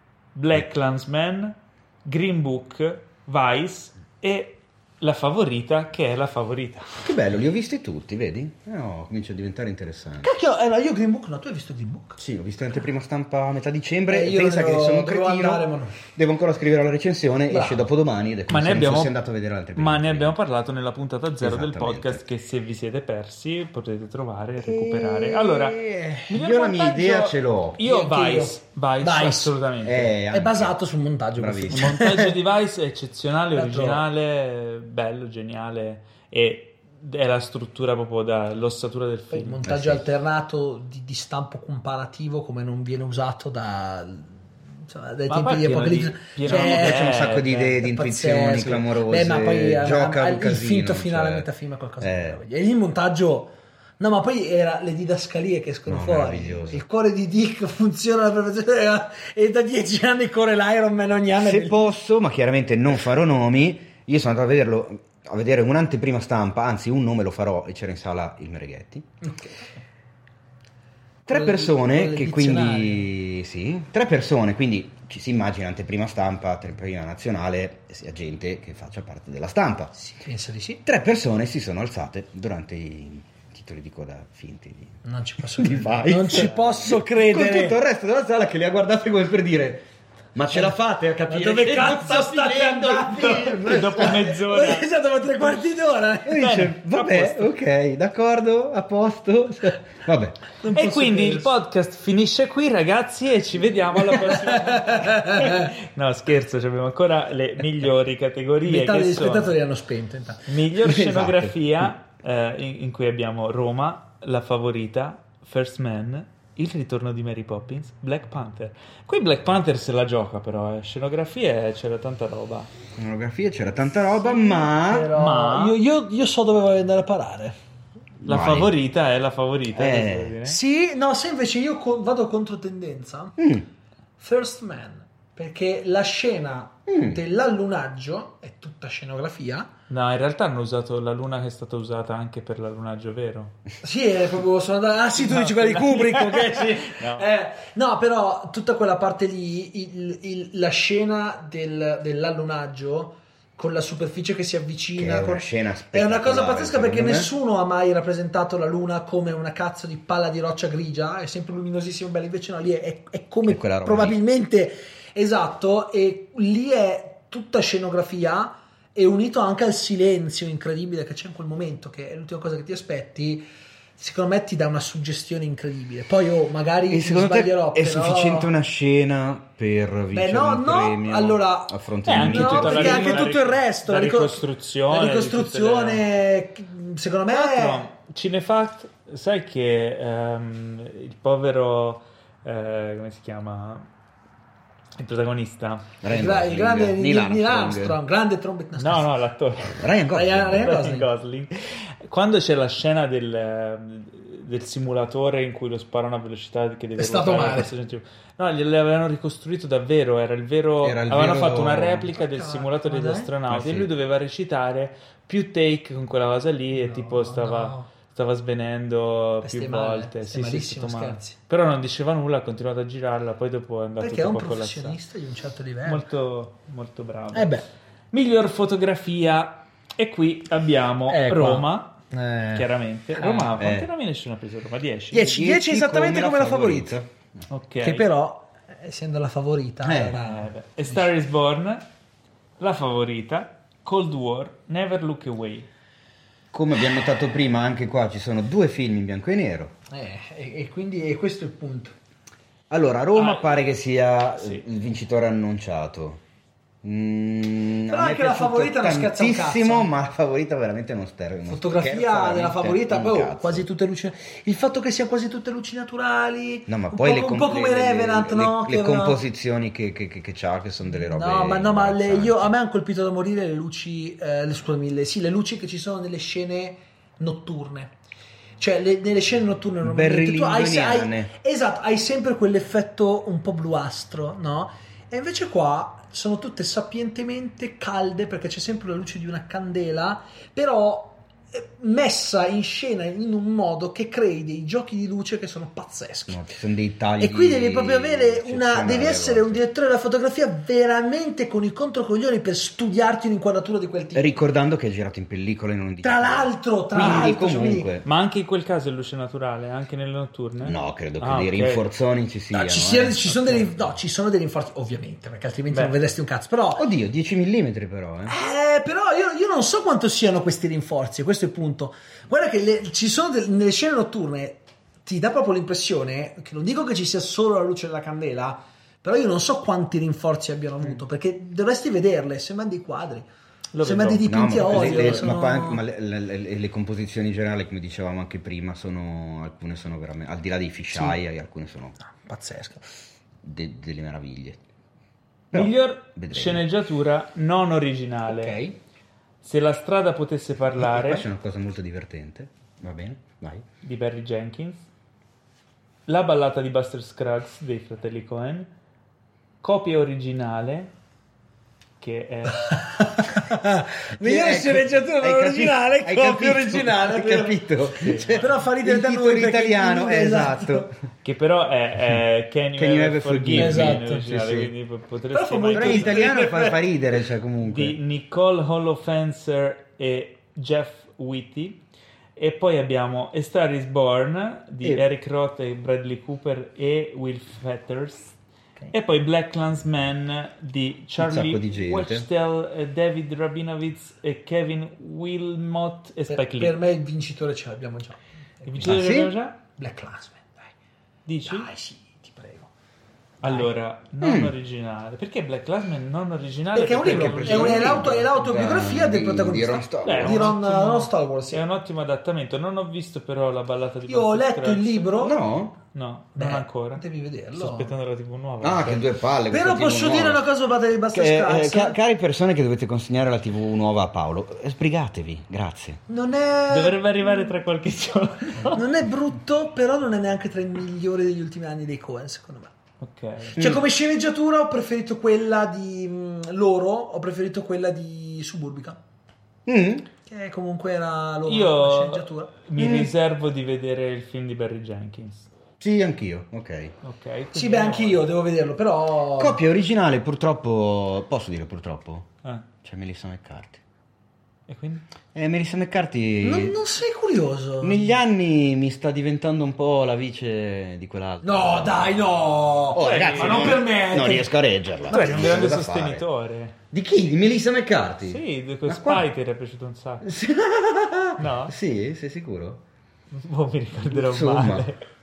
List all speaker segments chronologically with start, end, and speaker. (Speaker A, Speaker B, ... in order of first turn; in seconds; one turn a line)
Speaker A: 0.3-7.0
Speaker B: 7.0-10.3
Speaker C: 10.2-12.2
Speaker B: 12.2-20.4
Speaker C: 14.1-16.0
Speaker C: 17.5-17.9
Speaker A: 18.5-19.1
Speaker A: 19.8-30.1
Speaker B: 21.4-22.2
Speaker C: 24.6-26.3
Speaker B: 26.3-27.8
Speaker C: 27.8-29.6
Speaker B: 29.8-30.7
Speaker C: 30.3-32.4
Speaker B: 31.4-31.9
Speaker A: 31.7-39.6
Speaker C: 33.5-34.0
Speaker C: 39.3-47.2
Speaker B: 39.6-40.0
Speaker A: 45.3-47.8
Speaker B: 46.5-51.5
Speaker C: 47.8-61.8
Speaker B: 52.0-52.4
Speaker B: 55.9-56.8
Speaker B: 61.4-69.1
Speaker C: 69.2-69.8
Speaker B: 71.3-79.9
Speaker C: 71.3-73.1
Speaker C: 80.0-80.8
Speaker B: 80.8-85.0
Speaker C: 85.0-87.8
Speaker B: 85.6-94.2
Speaker C: 90.5-96.6
Speaker A: 93.7-94.9
Speaker B: 96.3-100.4
Speaker A: 96.3-97.5
Speaker C: 100.6-101.5
Speaker A: 100.7-109.5
Speaker C: 104.2-105.7
Speaker C: 108.7-110.7
Speaker A: 110.5-122.7
Speaker B: 110.9-111.5
Speaker B: 123.0-125.1
Speaker C: 124.2-127.6
Speaker A: 125.2-125.8
Speaker B: 128.2-128.7
Speaker A: 128.3-130.6
Speaker B: 129.7-130.3
Speaker C: 130.5-133.4
Speaker B: 133.4-133.7
Speaker C: 134.2-139.7
Speaker B: 136.9-137.2
Speaker A: 139.9-143.6
Speaker C: 143.8-173.5
Speaker A: 145.2-147.3
Speaker B: 155.0-157.3
Speaker B: 163.4-164.2
Speaker C: 174.0-178.5
Speaker B: 176.9-183.3
Speaker C: 180.1-187.9
Speaker A: 182.1-186.0
Speaker A: 187.3-193.9
Speaker A: 195.0-195.9
Speaker B: 196.0-198.0
Speaker C: 196.1-199.1
Speaker A: 198.8-199.8
Speaker B: 199.7-200.8
Speaker C: 200.1-201.1
Speaker A: 200.6-225.0
Speaker C: 207.0-207.7
Speaker B: 210.8-212.1
Speaker C: 212.2-213.3
Speaker B: 213.5-213.9
Speaker C: 216.7-217.9
Speaker C: 219.4-221.4
Speaker C: 224.0-226.1
Speaker A: 225.8-227.6
Speaker C: 227.3-227.6
Speaker A: 228.1-232.0
Speaker C: 231.1-233.5
Speaker A: 232.5-235.3
Speaker B: 233.6-233.9
Speaker C: 235.1-236.9
Speaker B: 235.2-237.1
Speaker A: 237.5-238.1
Speaker C: 237.8-241.1
Speaker B: 239.8-240.2
Speaker A: 240.2-241.8
Speaker A: 242.6-245.7
Speaker B: 246.5-249.8
Speaker C: 249.9-251.9
Speaker B: 252.7-256.2
Speaker A: 253.2-253.7
Speaker A: 254.4-254.7
Speaker B: 256.8-263.6
Speaker C: 257.9-259.9
Speaker C: 261.5-269.2
Speaker B: 266.7-272.5
Speaker C: 271.0-277.9
Speaker C: 278.6-296.4
Speaker B: 279.8-281.3
Speaker B: 296.3-299.6
Speaker C: 297.2-304.3
Speaker B: 304.1-308.1
Speaker C: 306.0-307.9
Speaker A: 307.0-307.3
Speaker A: 308.0-311.8
Speaker B: 310.6-313.7
Speaker C: 312.5-316.9
Speaker B: 316.8-318.4
Speaker C: 318.3-333.3
Speaker A: 333.7-335.3
Speaker C: 333.8-335.8
Speaker B: 334.2-341.9
Speaker C: 340.9-341.2
Speaker C: 342.0-342.9
Speaker B: 343.4-344.6
Speaker B: 345.5-346.6
Speaker A: 345.5-348.6
Speaker C: 348.3-348.8
Speaker A: 349.4-351.2
Speaker B: 350.8-353.7
Speaker A: 353.8-354.9
Speaker A: 356.1-358.7
Speaker A: 359.6-360.9
Speaker A: 362.0-362.8
Speaker C: 362.8-367.7
Speaker B: 364.2-370.9
Speaker A: 368.0-368.5
Speaker C: 368.3-370.9
Speaker A: 371.2-376.3
Speaker B: 372.8-374.7
Speaker C: 373.5-374.1
Speaker C: 375.3-376.9
Speaker B: 375.7-378.0
Speaker A: 377.6-381.8
Speaker A: 382.4-388.3
Speaker A: 388.9-396.8
Speaker B: 391.2-392.3
Speaker C: 396.3-399.0
Speaker A: 398.7-399.6
Speaker B: 398.8-399.3
Speaker C: 399.8-400.7
Speaker A: 401.3-401.7
Speaker C: 401.4-402.7
Speaker C: 403.4-403.7
Speaker A: 403.4-408.0
Speaker B: 404.2-404.5
Speaker C: 406.8-411.6
Speaker B: 407.0-410.6
Speaker A: 410.0-415.1
Speaker C: 414.1-415.4
Speaker B: 415.2-415.8
Speaker A: 415.9-417.0
Speaker C: 416.4-417.9
Speaker A: 417.5-419.1
Speaker B: 418.6-420.4
Speaker C: 419.5-422.0
Speaker B: 421.1-426.0
Speaker C: 426.1-427.5
Speaker A: 426.7-428.8
Speaker C: 428.7-432.7
Speaker A: 433.0-433.6
Speaker C: 433.6-439.0
Speaker B: 433.6-433.8
Speaker B: 439.7-440.1
Speaker C: 440.3-442.5
Speaker A: 441.5-445.5
Speaker B: 442.8-443.1
Speaker B: 445.8-446.9
Speaker A: 447.0-448.3
Speaker C: 447.5-449.6
Speaker B: 449.4-452.3
Speaker B: 452.8-453.8
Speaker A: 454.7-455.0
Speaker B: 455.3-456.8
Speaker C: 456.4-458.1
Speaker B: 457.8-462.3
Speaker C: 461.4-464.5
Speaker B: 462.9-466.2
Speaker A: 463.0-463.8
Speaker C: 465.1-465.8
Speaker A: 465.1-466.8
Speaker B: 466.9-469.3
Speaker A: 468.2-470.3
Speaker B: 470.2-472.8
Speaker A: 471.4-471.8
Speaker A: 473.3-475.0
Speaker B: 474.1-474.9